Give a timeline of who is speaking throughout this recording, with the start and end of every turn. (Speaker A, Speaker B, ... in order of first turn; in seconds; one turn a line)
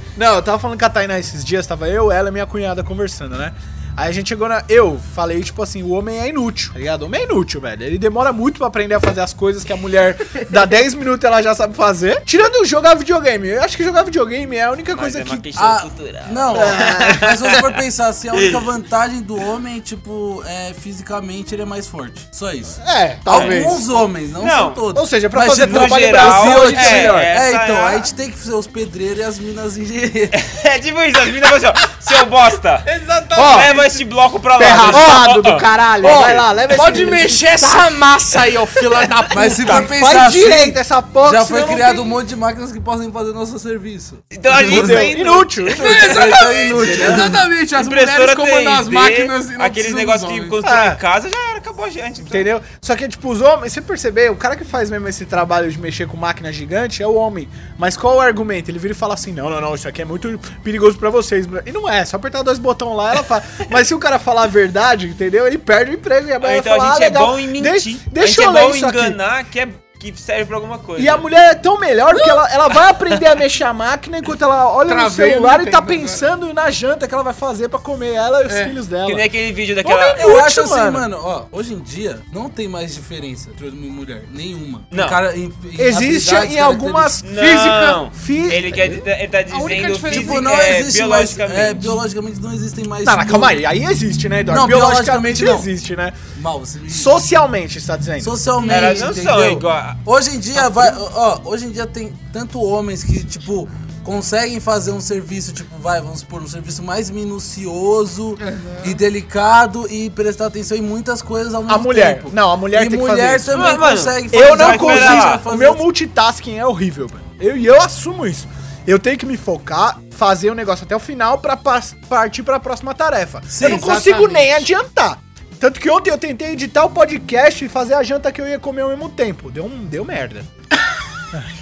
Speaker A: 0.1-15.5
Speaker B: 14.9-17.7
Speaker C: 15.6-30.4
Speaker A: 16.5-17.3
Speaker A: 22.8-23.8
Speaker B: 23.3-24.8
Speaker A: 24.9-27.3
Speaker B: 25.6-28.1
Speaker B: 30.3-32.9
Speaker D: 32.8-34.0
Speaker A: 33.3-33.7
Speaker B: 33.4-36.5
Speaker A: 34.6-37.9
Speaker D: 34.9-35.4
Speaker D: 36.0-39.9
Speaker C: 39.3-45.1
Speaker A: 39.7-42.2
Speaker B: 44.3-45.9
Speaker A: 44.5-47.3
Speaker D: 45.8-50.6
Speaker C: 45.9-47.4
Speaker B: 47.7-52.5
Speaker A: 50.6-51.0
Speaker A: 52.2-69.2
Speaker B: 66.4-71.3
Speaker A: 71.0-79.2
Speaker D: 72.1-72.4
Speaker D: 74.8-76.3
Speaker D: 78.5-78.8
Speaker B: 79.0-80.2
Speaker A: 79.8-81.0
Speaker C: 80.2-87.2
Speaker B: 84.9-85.2
Speaker A: 85.8-89.0
Speaker B: 87.2-91.9
Speaker D: 87.3-88.0
Speaker D: 89.5-90.5
Speaker C: 90.1-93.6
Speaker A: 93.0-96.2
Speaker C: 94.5-95.7
Speaker C: 96.3-97.2
Speaker A: 96.9-98.4
Speaker C: 98.2-115.8
Speaker D: 98.6-99.1
Speaker B: 98.6-100.0
Speaker D: 108.4-109.0
Speaker A: 111.7-130.5
Speaker B: 113.5-115.4
Speaker C: 123.5-124.0
Speaker D: 123.6-124.6